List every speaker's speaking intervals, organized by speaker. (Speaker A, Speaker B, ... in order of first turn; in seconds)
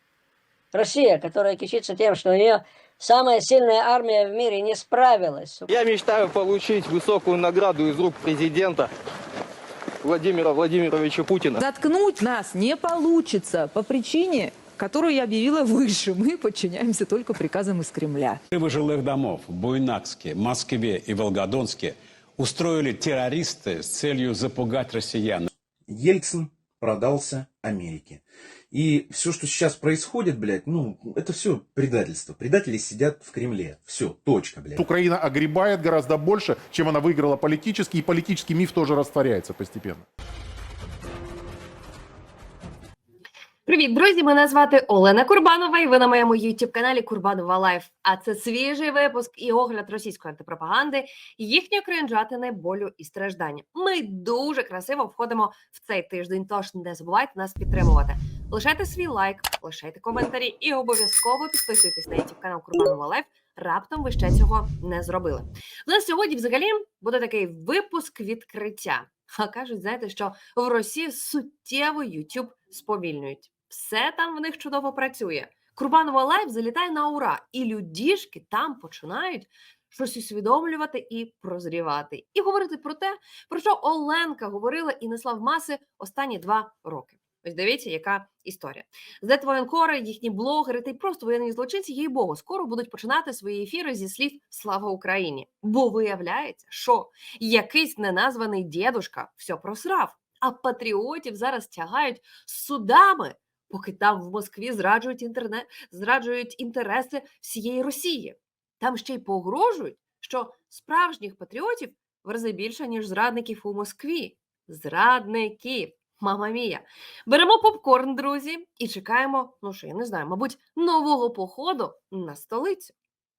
Speaker A: 0.7-5.7
Speaker B: 5.7-8.9, 10.0-11.6
Speaker C: 11.6-18.4
Speaker D: 18.5-25.5
Speaker E: 25.9-34.8
Speaker F: 34.8-40.0
Speaker G: 43.7-122.9